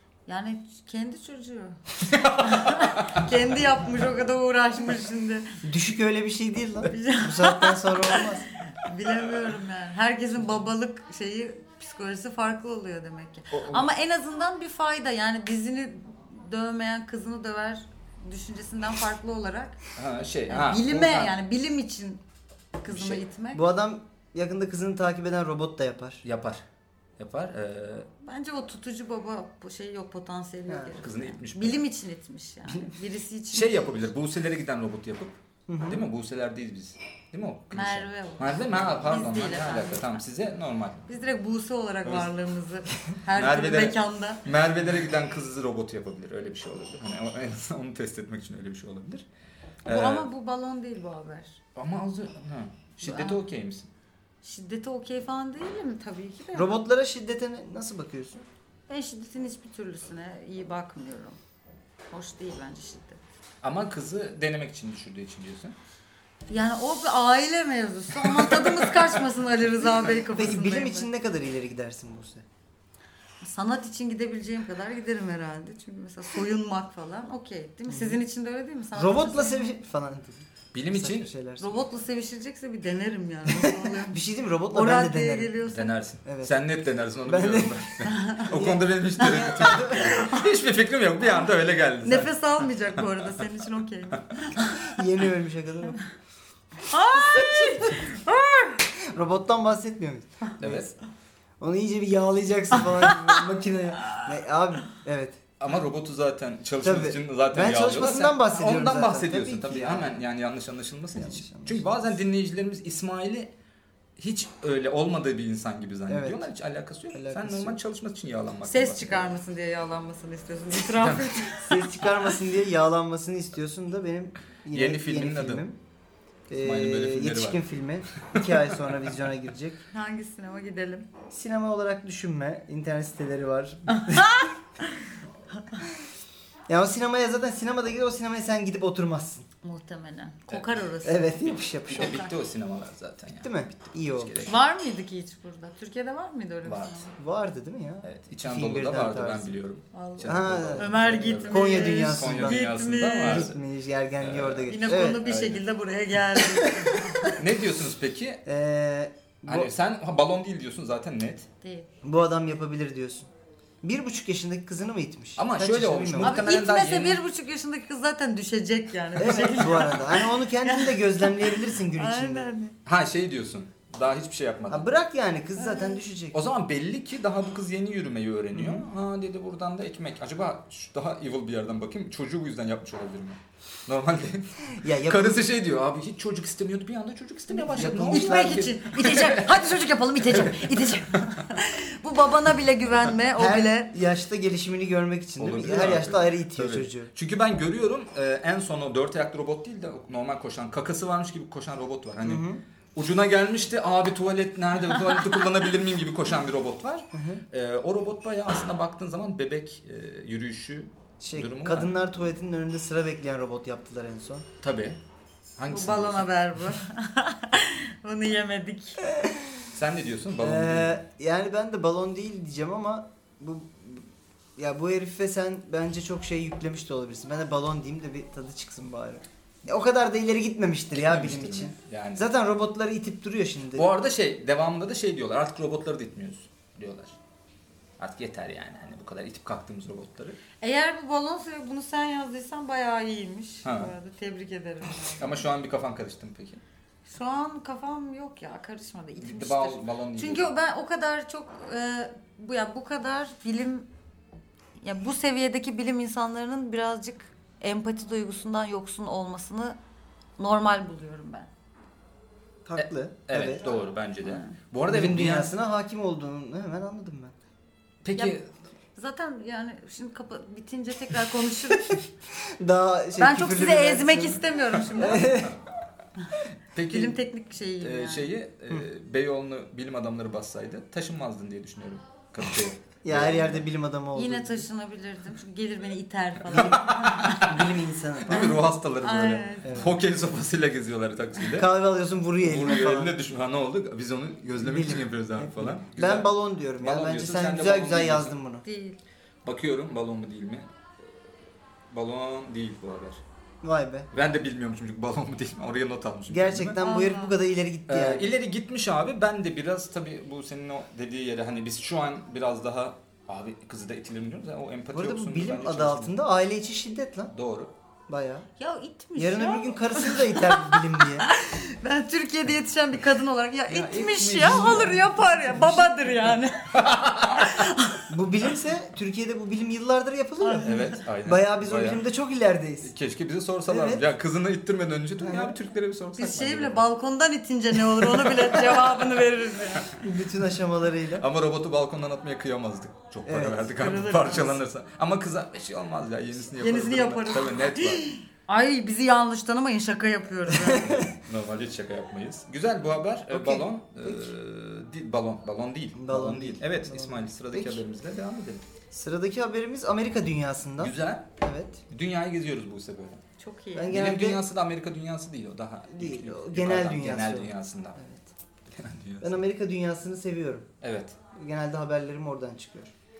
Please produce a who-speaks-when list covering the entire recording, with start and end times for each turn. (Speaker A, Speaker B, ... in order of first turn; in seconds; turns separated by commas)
Speaker A: 0.3-5.6, Speaker B: 2.1-3.3, Speaker C: 5.6-8.4, Speaker A: 6.9-19.8, Speaker B: 13.5-13.9, Speaker B: 19.9-21.3, Speaker A: 20.5-22.2, Speaker A: 22.8-23.6, Speaker B: 22.9-23.2, Speaker C: 23.5-26.2, Speaker B: 26.2-26.6, Speaker B: 27.2-28.1, Speaker A: 28.2-34.0, Speaker B: 31.0-31.8, Speaker B: 33.5-41.0, Speaker C: 35.7-36.0, Speaker A: 37.7-40.2, Speaker A: 41.1-44.5, Speaker B: 43.3-49.2, Speaker B: 49.8-50.3, Speaker A: 49.9-51.6, Speaker B: 51.8-53.9, Speaker A: 53.0-53.4, Speaker A: 54.4-56.8, Speaker C: 56.5-58.4, Speaker A: 58.9-61.4, Speaker A: 62.1-63.2, Speaker B: 63.6-65.8, Speaker A: 66.5-71.1, Speaker B: 68.2-68.8, Speaker C: 70.3-72.4, Speaker A: 73.4-79.7, Speaker C: 77.9-78.2, Speaker C: 78.9-81.8, Speaker B: 80.7-81.3, Speaker A: 81.6-85.9, Speaker C: 83.5-85.5, Speaker B: 85.6-93.0, Speaker C: 86.2-86.5, Speaker C: 87.2-87.9, Speaker A: 88.0-88.5, Speaker C: 88.5-90.2, Speaker A: 89.8-90.5, Speaker A: 92.0-94.9, Speaker C: 94.8-96.0, Speaker A: 96.8-98.8, Speaker C: 97.1-98.1, Speaker C: 98.9-100.9, Speaker B: 100.6-100.9, Speaker C: 101.6-105.4, Speaker A: 103.1-103.4, Speaker B: 105.6-113.5, Speaker C: 106.8-110.1, Speaker C: 111.1-111.9, Speaker B: 114.2-119.2, Speaker C: 116.1-116.5, Speaker C: 117.1-117.8, Speaker A: 118.7-122.0, Speaker B: 120.9-121.5, Speaker C: 121.6-125.8, Speaker B: 124.7-125.6, Speaker C: 126.5-129.8, Speaker B: 126.6-127.6, Speaker A: 129.9-131.1, Speaker C: 131.3-134.4, Speaker A: 133.9-135.1, Speaker C: 136.7-139.5, Speaker A: 139.6-141.4, Speaker B: 140.5-140.8, Speaker C: 141.0-142.3, Speaker B: 141.9-144.6, Speaker A: 141.9-142.3, Speaker C: 143.4-144.5, Speaker A: 144.4-147.1, Speaker B: 146.6-147.1, Speaker C: 147.2-149.5, Speaker B: 148.0-153.6, Speaker A: 149.9-153.5, Speaker C: 150.2-152.7, Speaker C: 153.2-155.2, Speaker B: 154.2-155.6, Speaker A: 154.7-157.4, Speaker C: 156.4-157.4, Speaker B: 157.3-158.4, Speaker C: 158.4-159.7, Speaker B: 159.5-161.5, Speaker A: 161.6-161.9, Speaker C: 162.0-163.3, Speaker C: 163.8-166.4, Speaker B: 165.4-167.2, Speaker A: 166.2-172.8, Speaker C: 169.2-172.5, Speaker B: 172.8-174.9, Speaker C: 174.7-176.4, Speaker A: 175.6-175.9, Speaker B: 176.3-189.7, Speaker C: 178.5-178.9, Speaker C: 184.7-185.4, Speaker C: 187.5-188.7, Speaker A: 187.8-193.9, Speaker B: 190.3-190.6, Speaker C: 193.3-197.1, Speaker B: 195.4-212.1, Speaker C: 202.2-202.6, Speaker C: 207.1-207.4, Speaker C: 211.2-214.4, Speaker B: 214.6-215.0, Speaker B: 215.6-216.3, Speaker A: 215.7-219.1, Speaker C: 219.2-219.5, Speaker B: 219.7-221.0, Speaker C: 220.4-233.9, Speaker B: 230.9-232.3, Speaker B: 233.8-237.2, Speaker B: 238.0-240.4, Speaker A: 240.6-245.5, Speaker B: 243.6-243.9, Speaker B: 245.2-246.6, Speaker A: 247.1-253.9, Speaker B: 249.2-250.5, Speaker A: 254.8-259.8, Speaker A: 260.4-261.5, Speaker C: 262.6-263.7, Speaker B: 262.8-265.5, Speaker A: 264.2-264.6, Speaker C: 264.9-267.3, Speaker B: 268.0-268.4, Speaker A: 268.9-272.0, Speaker C: 271.9-275.6, Speaker A: 273.2-275.5, Speaker B: 276.7-277.2, Speaker A: 276.9-278.3, Speaker B: 277.8-283.7, Speaker C: 283.0-284.6, Speaker A: 284.1-287.5, Speaker B: 286.5-291.7, Speaker C: 287.3-288.6, Speaker A: 288.3-289.9, Speaker C: 289.6-289.9, Speaker C: 291.4-293.2, Speaker B: 292.4-298.3, Speaker C: 294.6-298.6, Speaker A: 298.6-299.0, Speaker B: 299.4-300.7, Speaker B: 301.9-303.2, Speaker C: 303.6-304.1, Speaker B: 304.1-306.8, Speaker C: 306.3-308.3, Speaker A: 306.8-307.3, Speaker B: 307.9-316.2, Speaker C: 314.9-317.3, Speaker B: 317.3-317.7, Speaker C: 318.1-318.5, Speaker A: 318.6-328.1, Speaker C: 319.2-321.3, Speaker B: 323.7-325.0, Speaker C: 324.4-326.0, Speaker B: 326.7-327.6, Speaker C: 328.1-332.9, Speaker A: 330.4-330.9, Speaker B: 330.6-332.0, Speaker B: 332.8-336.8, Speaker C: 333.7-334.0, Speaker C: 335.2-335.6, Speaker A: 336.2-340.0, Speaker C: 340.0-341.2, Speaker B: 341.2-348.1, Speaker C: 343.2-343.9, Speaker A: 343.8-344.6, Speaker A: 346.6-351.0, Speaker C: 350.5-351.1, Speaker B: 350.8-358.6, Speaker C: 353.3-354.3, Speaker C: 355.9-357.8, Speaker C: 358.9-361.8, Speaker B: 360.8-361.3, Speaker B: 361.9-363.2, Speaker A: 363.4-364.0, Speaker C: 363.7-364.4, Speaker B: 363.9-368.0, Speaker C: 365.9-368.3, Speaker B: 368.7-369.4, Speaker C: 369.2-370.7, Speaker B: 370.8-371.1, Speaker C: 371.3-372.9